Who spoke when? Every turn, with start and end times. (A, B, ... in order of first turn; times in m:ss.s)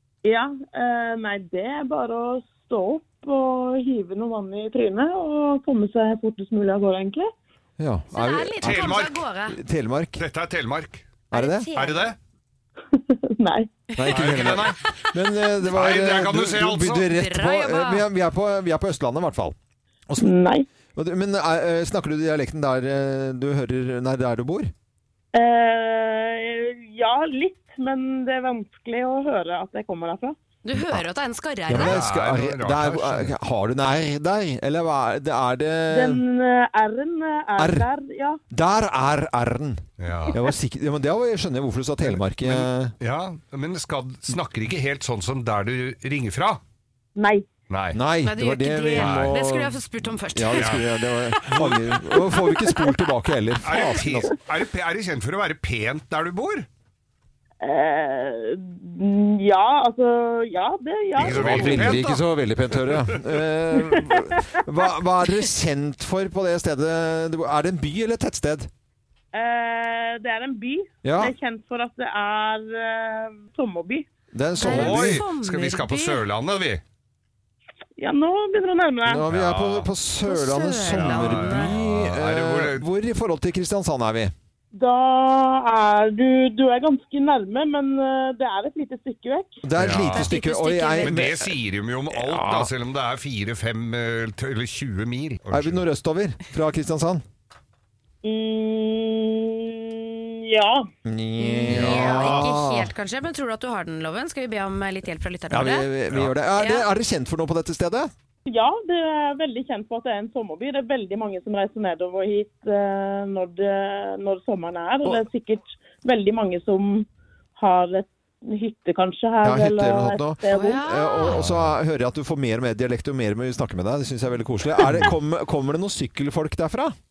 0:00.2-0:07.3 A
0:07.8-0:10.2 B
0:08.1-0:09.6 C
0:08.6-0:09.2 D
0:10.2-0:11.1 D
0:11.3-0:11.7 B
0:11.3-0:12.1 C
0:11.7-0:12.2 D
0:12.9-0:13.8 A
0:14.0-0:19.6 B
0:14.1-0:14.9 D
0:15.6-0:17.1 D
0:17.0-0:18.1 C
0:20.1-0:20.3 B
0:20.2-0:20.7 A
0:21.0-0:24.7 B
0:25.3-0:30.4 A
0:30.6-0:32.0 C
0:30.8-0:31.0 B
0:31.7-0:36.2 B
0:31.7-0:33.4 D
0:35.9-0:38.4 A
0:37.6-0:37.9 B
0:38.5-0:43.0 B
0:40.0-0:40.4 D
0:42.0-0:46.6 D
0:47.2-0:47.5 A
0:47.7-0:48.0 D
0:47.9-0:54.3 B
0:48.2-0:51.4 C
0:49.0-0:49.4 D
0:50.5-0:50.8 D
0:51.5-0:51.9 D
0:53.6-0:56.7 D
0:57.6-1:02.0 A
1:01.2-1:03.4 D
1:01.2-1:08.7 B
1:03.9-1:04.6 A
1:09.3-1:14.1 A
1:11.0-1:11.4 B
1:14.3-1:15.2 B
1:14.6-1:16.2 C
1:14.6-1:16.8 D
1:18.0-1:19.3 A
1:19.1-1:24.3 B
1:19.3-1:19.9 D
1:20.3-1:21.8 C
1:20.9-1:22.9 D
1:24.7-1:29.6 A
1:29.6-1:31.6 B
1:29.8-1:30.3 D
1:30.1-1:31.2 C
1:31.0-1:35.8 D
1:32.1-1:32.7 B
1:35.5-1:37.2 B
1:38.2-1:40.9 A
1:41.0-1:42.9 B
1:41.4-1:45.9 C
1:41.7-1:42.5 D
1:45.5-1:48.1 B
1:46.6-1:46.9 C
1:48.5-2:00.9 A
1:59.4-2:07.0 B
2:00.5-2:01.4 C
2:01.3-2:01.8 D